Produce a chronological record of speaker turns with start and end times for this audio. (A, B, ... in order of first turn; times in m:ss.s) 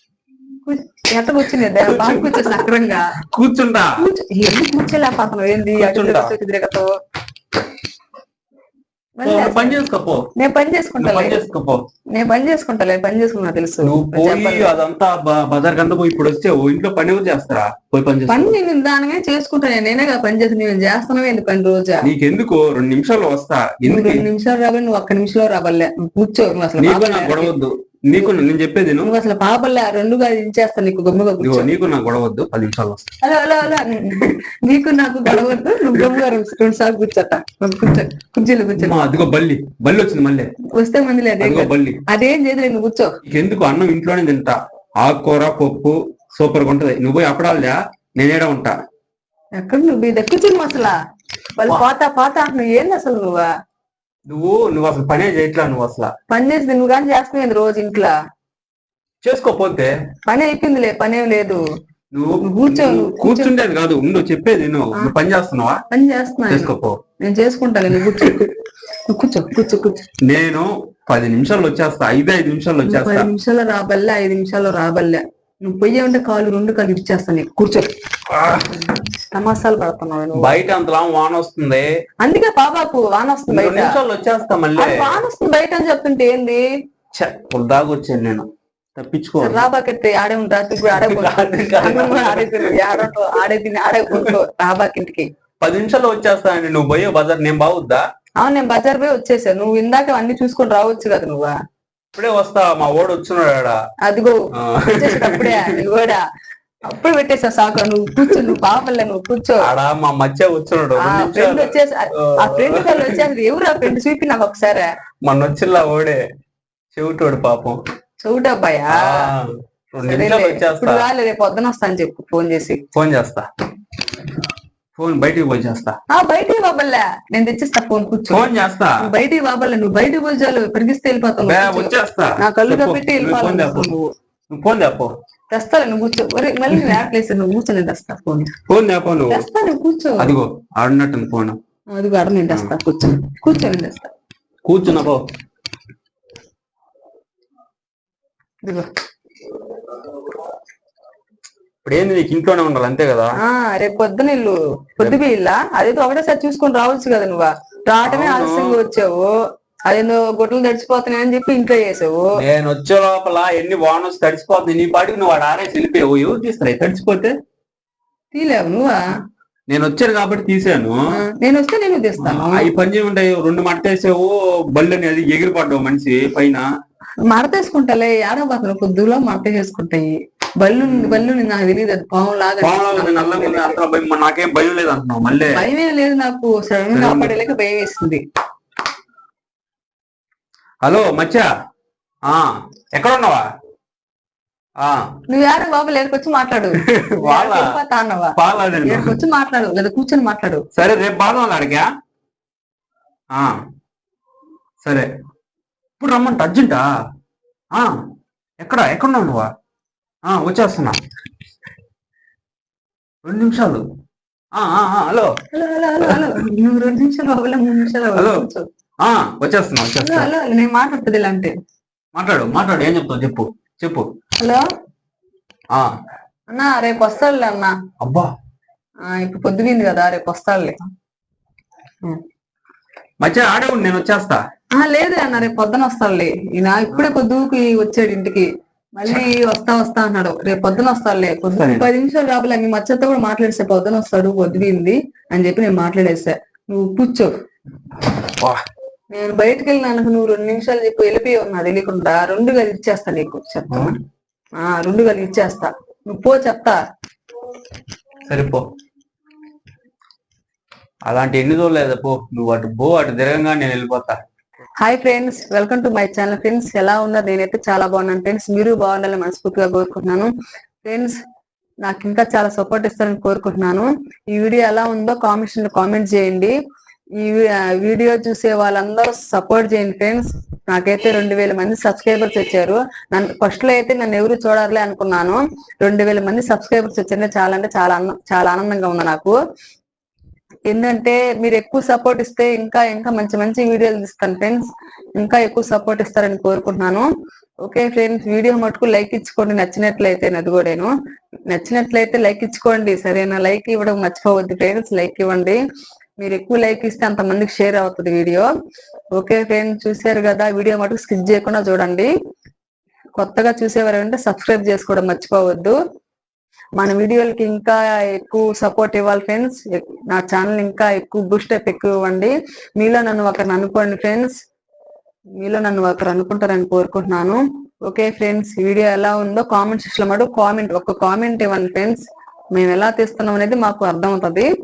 0:00.7-0:03.1 A
0:01.6-0:02.6 B
0:03.3-0:04.0 B
0:04.0-0:06.9 A
0:05.7-0:06.3 B
0:09.2-0:09.8 A
0:09.2-0:10.3 B
0:10.4-0:11.4 A
0:11.0-0:11.8 B
0:12.1-0:14.7 A
0:13.8-0:18.5 B
0:18.3-0:22.0 A
0:22.0-0:24.3 B
0:23.8-0:27.5 A
0:26.8-0:29.1 B
0:29.0-0:31.7 A
0:31.4-0:33.1 B
0:33.2-0:39.2 A
0:38.8-0:40.5 B
0:40.8-0:43.2 A
0:41.4-0:42.0 B
0:43.3-0:48.8 B
0:49.6-0:51.0 A
0:51.6-0:53.5 A
0:54.3-0:56.1 B
0:56.3-0:58.1 A
0:59.2-0:59.9 B
1:00.3-1:01.6 A
1:02.1-1:05.8 B
1:02.4-1:03.6 A
1:05.9-1:06.7 A
1:06.5-1:07.0 B
1:07.2-1:08.6 A
1:09.1-1:10.0 A
1:10.2-1:13.3 B
1:12.9-1:17.9 A
1:18.3-1:18.8 B
1:19.0-1:20.5 A
1:20.4-1:21.9 B
1:22.2-1:24.0 A
1:23.5-1:25.2 B
1:24.8-1:26.6 A
1:27.2-1:29.6 B
1:29.4-1:35.3 A
1:30.9-1:33.1 B
1:35.6-1:38.0 B
1:38.4-1:41.5 A
1:42.2-1:43.8 B
1:44.0-1:44.4 A
1:44.6-1:45.8 B
1:44.9-1:46.2 A
1:46.9-1:49.7 A
1:49.6-1:53.2 B
1:51.0-1:54.9 A
1:55.2-1:56.2 B
1:56.9-1:57.8 B
1:58.2-1:59.3 A
1:58.9-2:01.1 B
2:00.0-2:02.8 A
2:02.9-2:03.5 B
2:05.0-2:06.0 B
2:06.1-2:08.5 A
2:08.3-2:09.0 B
2:09.0-2:14.1 A
2:11.4-2:13.9 B
2:14.5-2:15.1 B
2:15.5-2:18.5 A
2:18.7-2:19.4 B
2:19.3-2:20.3 A
2:20.2-2:21.6 B
2:21.9-2:24.1 A
2:24.7-2:25.2 B
2:31.8-2:33.4 B
2:33.4-2:39.3 A
2:38.0-2:38.8 B
2:39.9-2:42.3 A
2:42.4-2:47.3 B
2:48.3-2:49.0 A
2:49.7-2:51.0 B
2:51.2-2:52.7 A
2:52.2-2:56.7 B
2:57.3-3:03.8 A
3:00.9-3:01.2 B
3:02.6-3:05.6 B
3:05.5-3:08.2 A
3:06.9-3:07.3 B
3:10.8-3:11.5 B
3:12.3-3:13.4 B
3:15.3-3:20.6 A
3:16.8-3:17.7 B
3:18.4-3:19.1 B
3:20.8-3:21.9 B
3:26.0-3:26.8 B
3:28.6-3:29.5 B
3:30.3-3:31.0 B
3:33.2-3:33.8 B
3:34.6-3:35.3 B
3:35.5-3:38.7 A
3:38.2-3:38.4 B
3:39.0-3:40.3 B
3:40.0-3:41.5 A
3:42.2-3:44.1 B
3:46.5-3:47.7 A
3:48.0-3:48.3 B
3:49.1-3:50.8 A
3:53.2-3:54.4 B
3:54.8-4:07.3 A
4:01.5-4:01.9 B
4:09.1-4:14.0 A
4:14.6-4:16.8 A
4:18.3-4:18.6 B
4:21.1-4:24.2 B
4:24.8-4:30.3 A
4:30.8-4:31.2 A
4:31.8-4:36.5 A
4:37.2-4:49.4 A
4:50.7-4:54.6 A
4:55.2-4:57.1 A
4:57.6-5:00.9 A
5:01.5-5:05.6 A
5:06.2-5:08.5 A
5:09.2-5:12.1 A
5:13.2-5:15.8 A
5:16.8-5:24.4 A
5:25.4-5:34.5 A